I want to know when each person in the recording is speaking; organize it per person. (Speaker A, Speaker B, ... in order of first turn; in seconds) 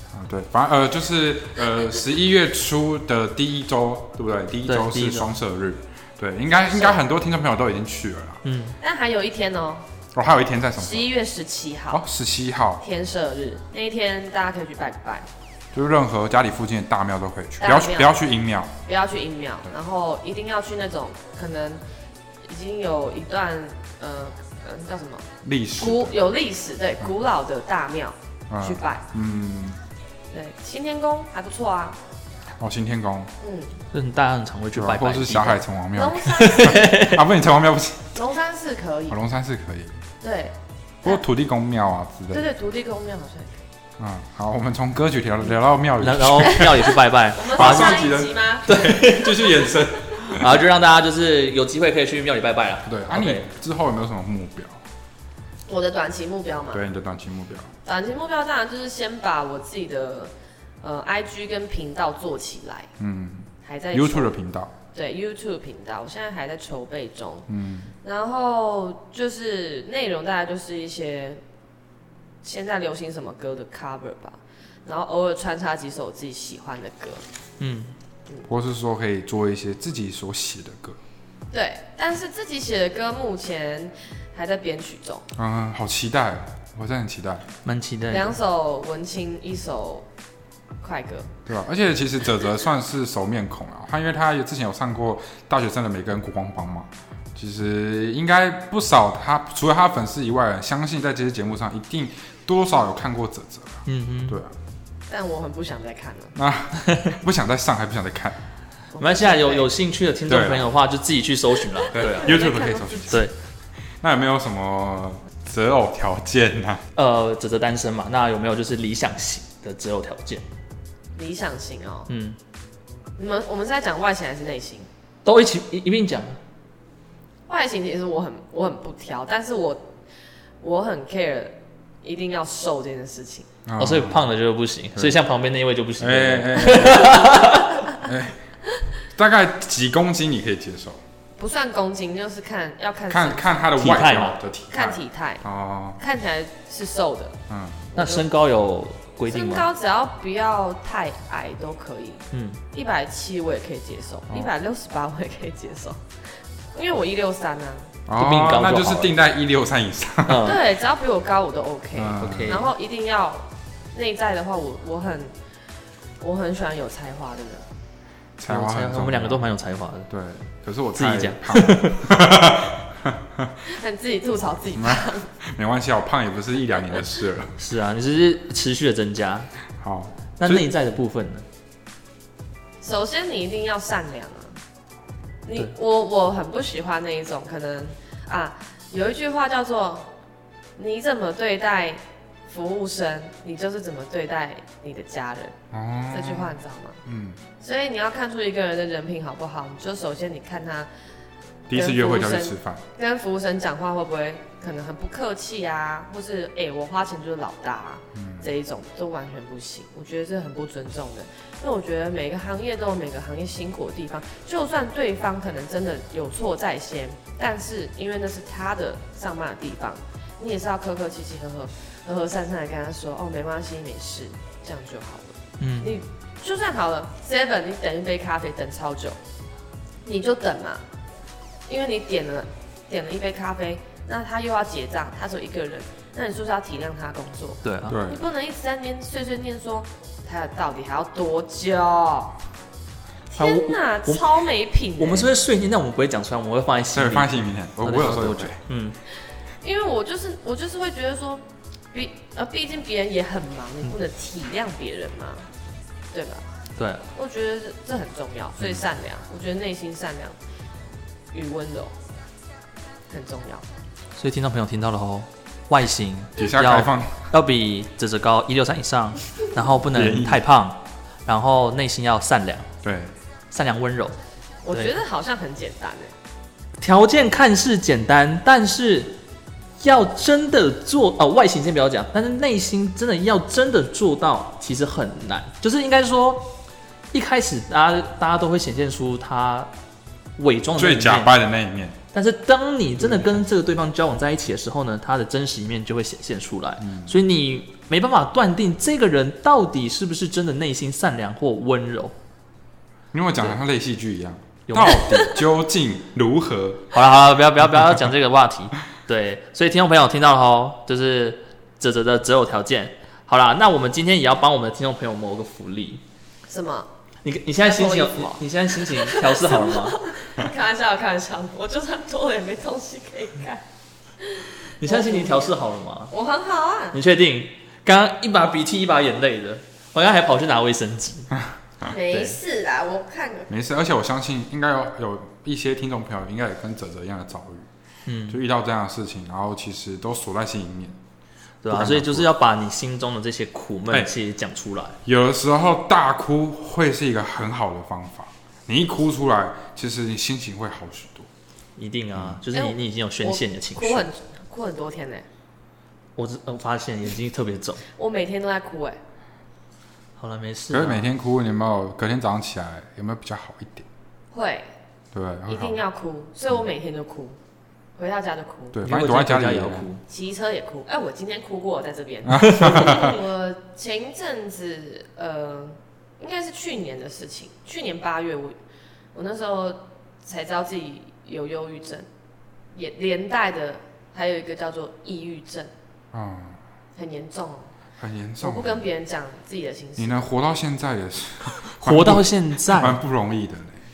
Speaker A: 0.1-8.4, 10.1-11.1, 11.9-12.8, 15.7-18.7, 25.4-26.2, 28.5-29.8, 32.6-33.3, 34.7-38.1, 39.1-40.0, 41.0-42.4, 44.0-46.9, 47.5-50.6, 52.8-54.8, 56.7-57.7, 63.0-64.7, 67.5-67.9, 78.5-81.0, 85.3-87.5, 91.5-104.5, 106.3-108.4, 110.3-110.7, 111.9-113.3, 114.0-116.8, 133.7-134.2, 136.0-138.4, 139.1-141.0, 143.1-146.0, 147.5-147.9, 158.1-160.6, 161.9-162.6, 168.4-169.4, 170.1-173.6, 174.8-177.5, 179.8-180.7, 195.7-197.4, 201.7-202.8, 208.1-208.5, 237.8-238.2, 246.9-248.6, 266.4-267.2, 269.9-270.4, 272.8-273.1, 290.8-291.9, 293.0-293.4, 296.8-297.1, 303.1-306.9, 333.5-337.7, 338.3-341.0, 341.7-342.3, 345.0-351.3, 352.1-352.4, 360.7-363.9, 365.1-365.8, 368.7-369.9, 372.3-373.2, 386.1-386.6, 388.0-388.8, 390.0-393.8
Speaker B: 4.7-5.3, 8.4-8.8, 33.9-35.6, 36.3-37.2, 46.0-48.1, 48.7-49.5, 50.3-53.5, 77.6-77.9, 87.6-88.4, 103.8-104.4, 106.8-107.1, 109.0-112.4, 117.0-120.4, 122.1-122.4, 125.2-126.4, 133.8-137.8, 143.8-144.4, 147.9-149.7, 152.3-152.6, 158.2-159.1, 160.3-160.6, 162.2-162.7, 168.5-170.1, 170.9-172.0, 177.6-179.5, 180.4-181.4, 225.6-225.9, 237.6-238.0, 243.4-244.4, 245.0-249.0, 256.8-257.1, 264.1-272.7, 273.5-274.1, 274.7-275.0, 276.8-279.2, 279.8-286.6, 287.1-289.7, 290.4-291.3, 292.1-302.1, 304.7-305.0, 306.9-316.0, 317.2-320.0, 324.8-326.1, 326.9-331.3, 332.1-332.4, 338.1-338.4, 341.6-345.0, 351.8-354.1, 356.2-357.8, 360.2-361.1, 368.8-370.0, 372.4-372.8, 391.5-393.0
Speaker C: 6.6-7.0, 8.8-9.8, 10.8-12.0, 12.8-15.3, 17.6-18.1, 18.8-21.8, 22.4-25.3, 25.8-29.0, 30.3-32.0, 33.4-33.7, 35.9-36.9, 38.1-39.2, 40.2-41.2, 42.3-43.6, 47.3-48.9, 55.7-56.8, 57.8-62.9, 63.6-64.3, 64.9-67.5, 68.0-71.4, 72.4-77.2, 81.5-85.3, 88.1-90.1, 90.8-91.3, 105.1-106.3, 108.9-109.7, 111.9-113.2, 121.2-122.1, 123.2-124.9, 127.5-129.9, 130.6-133.5, 141.4-143.6, 144.7-145.4, 146.0-147.4, 147.9-148.2, 149.3-156.0, 156.7-157.9, 160.4-165.3, 166.2-167.6, 173.6-175.3, 182.8-184.5, 185.4-190.1, 190.8-195.6, 196.1-197.0, 197.6-200.9, 201.7-229.2, 230.0-230.8, 231.7-242.3, 243.3-245.3, 249.6-255.5, 256.1-256.4, 257.1-260.4, 261.3-261.9, 263.1-263.6, 274.6-276.1, 316.5-316.9, 317.6-323.6, 324.2-325.6, 326.1-327.0, 331.9-333.5, 352.5-355.2, 358.0-359.0, 364.3-364.7, 365.5-367.4, 368.0-368.8, 370.1-378.5, 379.1-382.1, 382.7-385.7, 386.9-387.7, 388.4-390.3